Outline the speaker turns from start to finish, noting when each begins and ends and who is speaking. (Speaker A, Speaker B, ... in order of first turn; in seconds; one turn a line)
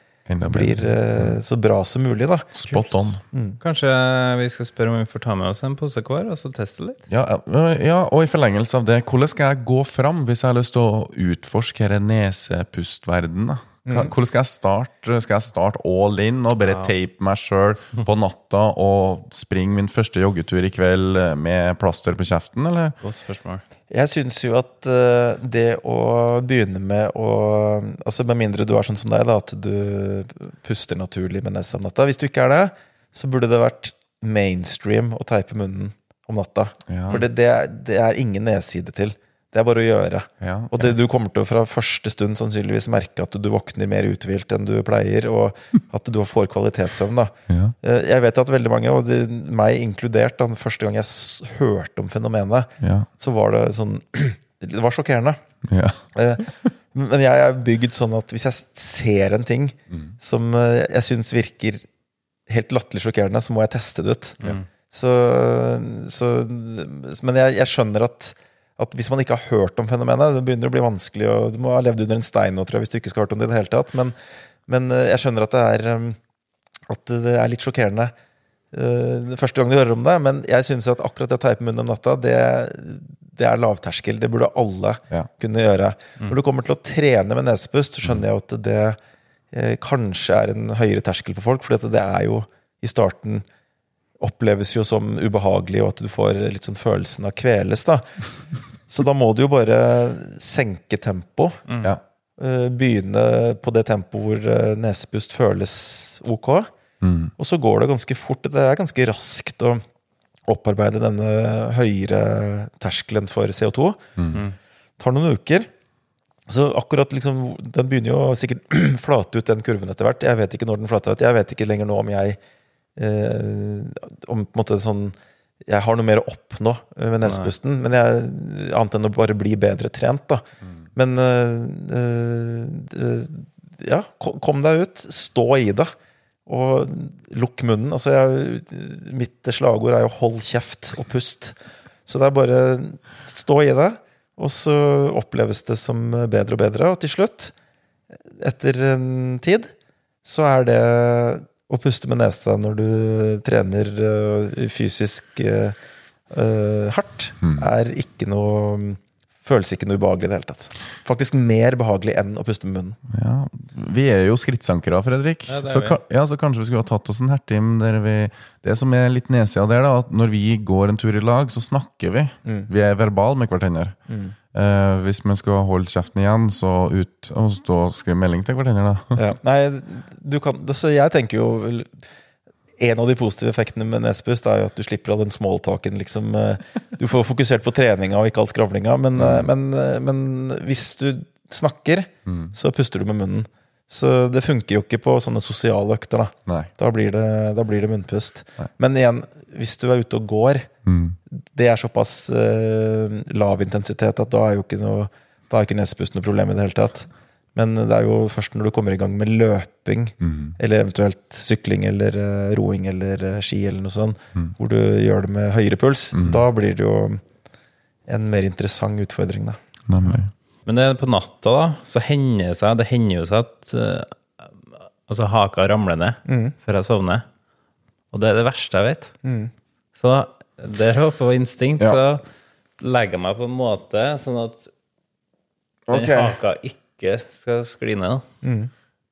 Speaker A: 0.3-1.4
Speaker B: 0.5-2.5
Speaker A: 2.5-3.2
Speaker B: 3.3-3.6
Speaker C: 3.6-7.0
Speaker A: 7.1-23.0
Speaker B: 13.9-14.1
Speaker C: 23.0-23.6
Speaker B: 23.9-55.4
Speaker A: 36.9-37.3
Speaker A: 40.4-40.9
Speaker A: 47.5-47.8
Speaker A: 52.8-53.1
Speaker A: 55.6-56.0
Speaker B: 56.1-61.9
Speaker B: 62.5-64.4
Speaker B: 64.9-74.1
Speaker B: 74.7-76.2
Speaker B: 76.9-78.1
Speaker B: 78.7-89.0
Speaker B: 89.5-93.5
Speaker B: 94.2-98.2
Speaker B: 98.9-101.6
Speaker C: 101.7-101.9
Speaker B: 102.4-106.7
Speaker A: 107.0-107.3
Speaker B: 107.4-109.8
Speaker B: 110.5-114.0
Speaker B: 115.0-115.7
Speaker B: 116.5-122.4
Speaker B: 123.0-130.4
Speaker C: 127.2-127.5
Speaker B: 131.0-135.9
Speaker B: 136.5-147.5
Speaker B: 148.3-149.7
Speaker B: 150.2-155.8
Speaker B: 156.3-163.0
Speaker A: 157.4-157.7
Speaker A: 163.1-174.0
Speaker C: 165.5-166.0
Speaker B: 172.4-172.7
Speaker B: 174.1-174.3
Speaker A: 174.5-179.2
Speaker B: 179.2-182.0
Speaker B: 182.8-200.7
Speaker A: 189.2-189.5
Speaker A: 192.3-192.5
Speaker A: 200.9-201.2
Speaker B: 201.3-217.2
Speaker A: 210.2-210.6
Speaker A: 216.1-216.4
Speaker B: 218.1-219.6
Speaker A: 219.9-220.3
Speaker C: 220.7-224.2
Speaker C: 225.1-227.2
Speaker B: 226.3-226.5
Speaker C: 228.1-229.1
Speaker B: 229.2-229.5
Speaker C: 229.9-232.2
Speaker C: 232.8-234.7
Speaker A: 235.9-236.4
Speaker C: 235.9-238.2
Speaker B: 238.4-238.7